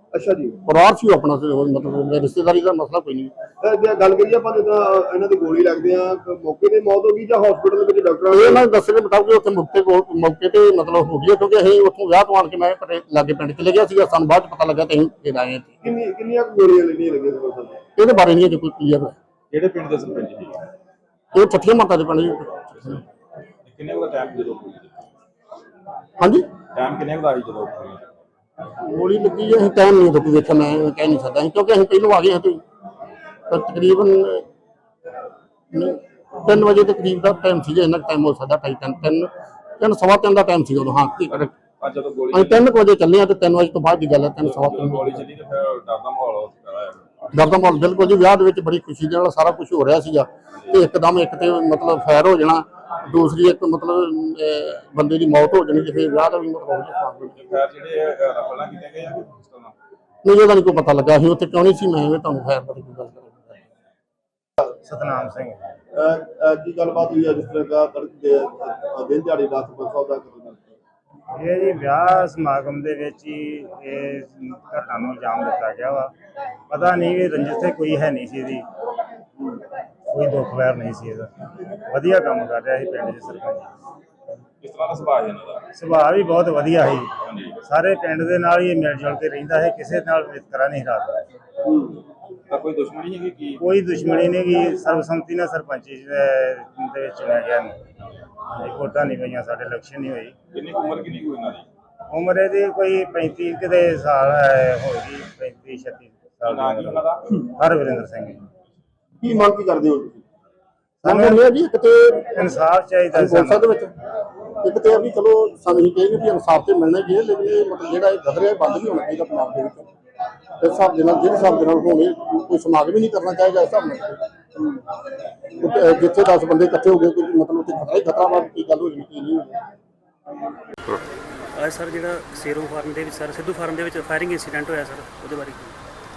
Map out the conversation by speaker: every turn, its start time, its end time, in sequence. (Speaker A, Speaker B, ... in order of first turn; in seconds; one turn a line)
Speaker A: 0.1-0.6
Speaker B: 0.7-3.3
Speaker A: 3.6-8.6
Speaker B: 8.3-15.8
Speaker A: 15.8-17.8
Speaker B: 18.0-19.1
Speaker C: 19.5-20.6
Speaker B: 21.3-23.0
Speaker C: 23.7-24.9
Speaker B: 26.2-26.5
Speaker C: 26.7-28.1
Speaker B: 28.8-32.6
Speaker B: 33.5-34.5
Speaker B: 35.7-41.5
Speaker C: 41.8-42.6
Speaker B: 42.3-45.2
Speaker C: 44.5-47.4
Speaker B: 47.3-57.4
Speaker C: 57.4-59.7
Speaker B: 60.2-63.6
Speaker D: 64.7-65.6
Speaker A: 65.9-70.8
Speaker D: 71.3-76.1
Speaker D: 76.7-78.7
Speaker D: 80.1-81.3
Speaker D: 81.9-83.7
Speaker C: 84.6-85.6
Speaker D: 85.8-91.2
Speaker C: 87.2-87.6
Speaker A: 91.7-92.0
Speaker C: 92.5-93.6
Speaker D: 93.6-97.8
Speaker D: 98.5-100.3
Speaker C: 100.5-101.7
Speaker D: 102.1-108.4
Speaker C: 106.5-107.4
Speaker A: 109.2-110.2
Speaker D: 111.0-111.4
Speaker B: 111.0-112.5
Speaker D: 112.4-113.6
Speaker B: 113.1-113.9
Speaker B: 114.6-119.9
Speaker B: 120.6-124.2
Speaker B: 125.6-129.5
Speaker E: 131.6-135.8